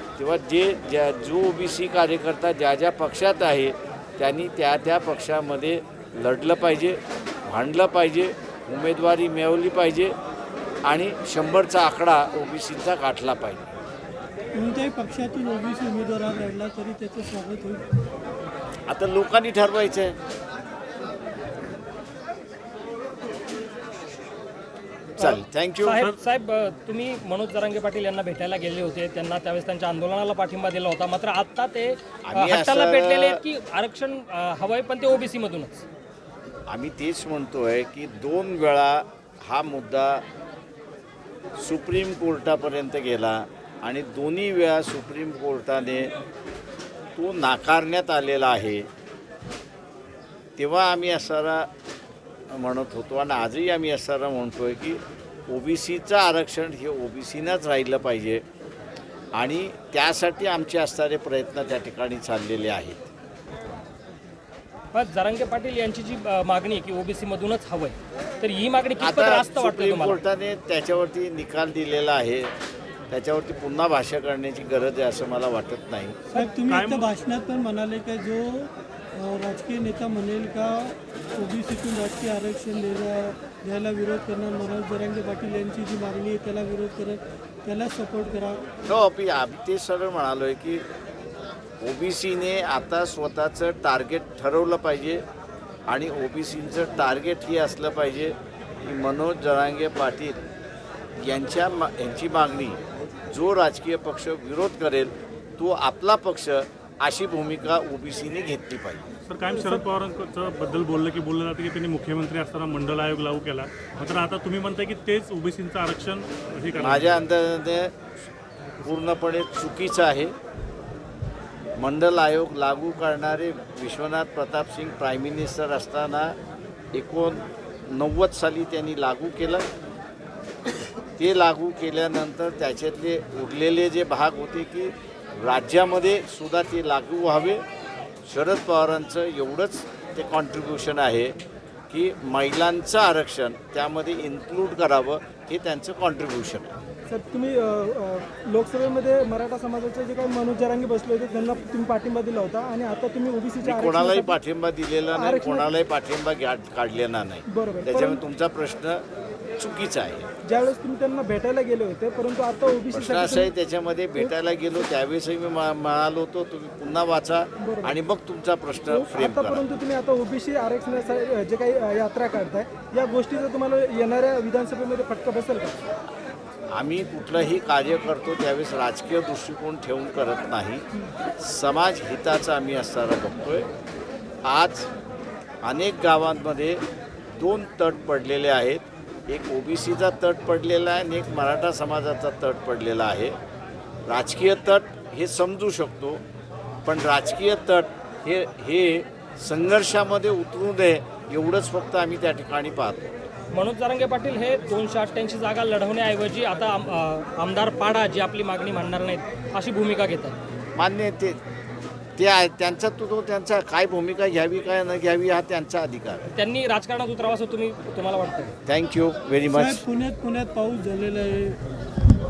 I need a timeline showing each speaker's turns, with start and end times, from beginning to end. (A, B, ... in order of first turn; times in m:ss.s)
0:00.2-0:10.1 A
0:10.8-0:13.7 A
0:14.5-0:17.9 B
0:18.9-0:20.2 A
0:25.2-0:26.0 A
0:25.2-0:35.8 C
0:32.2-0:33.4 A
0:36.7-0:40.2 A
0:41.6-0:46.1 A
0:47.2-0:48.9 A
0:50.6-0:51.7 A
0:52.5-0:58.4 A
0:59.3-1:03.1 A
1:04.9-1:10.2 C
1:09.0-1:12.5 A
1:13.1-1:16.2 A
1:16.3-1:28.7 B
1:16.7-1:17.0 D
1:28.9-1:30.8 A
1:31.8-1:35.2 A
1:35.9-1:40.4 A
1:41.2-1:49.0 A
1:49.2-1:57.1 D
1:56.8-1:57.9 A
1:58.8-2:00.3 A
2:01.8-2:06.4 A
2:06.9-2:09.6 A
2:11.2-2:17.6 A
2:18.2-2:21.3 A
2:21.9-2:26.7 A
2:27.1-2:34.4 E
2:33.6-2:39.0 A
2:35.1-2:35.7 E
2:37.5-2:38.2 E
2:39.6-2:40.3 A
2:40.4-2:43.5 E
2:42.9-2:49.6 A
2:47.6-2:47.9 E
2:48.9-2:55.8 E
2:56.7-3:00.9 A
3:01.4-3:03.7 A
3:04.4-3:04.9 A
3:05.6-3:06.8 A
3:07.4-3:13.4 A
3:14.1-3:16.2 A
3:16.8-3:23.1 A
3:23.5-3:30.4 C
3:30.8-3:31.4 A
3:32.2-3:36.3 A
3:36.3-3:38.5 C
3:38.6-3:39.8 A
3:39.5-3:41.6 B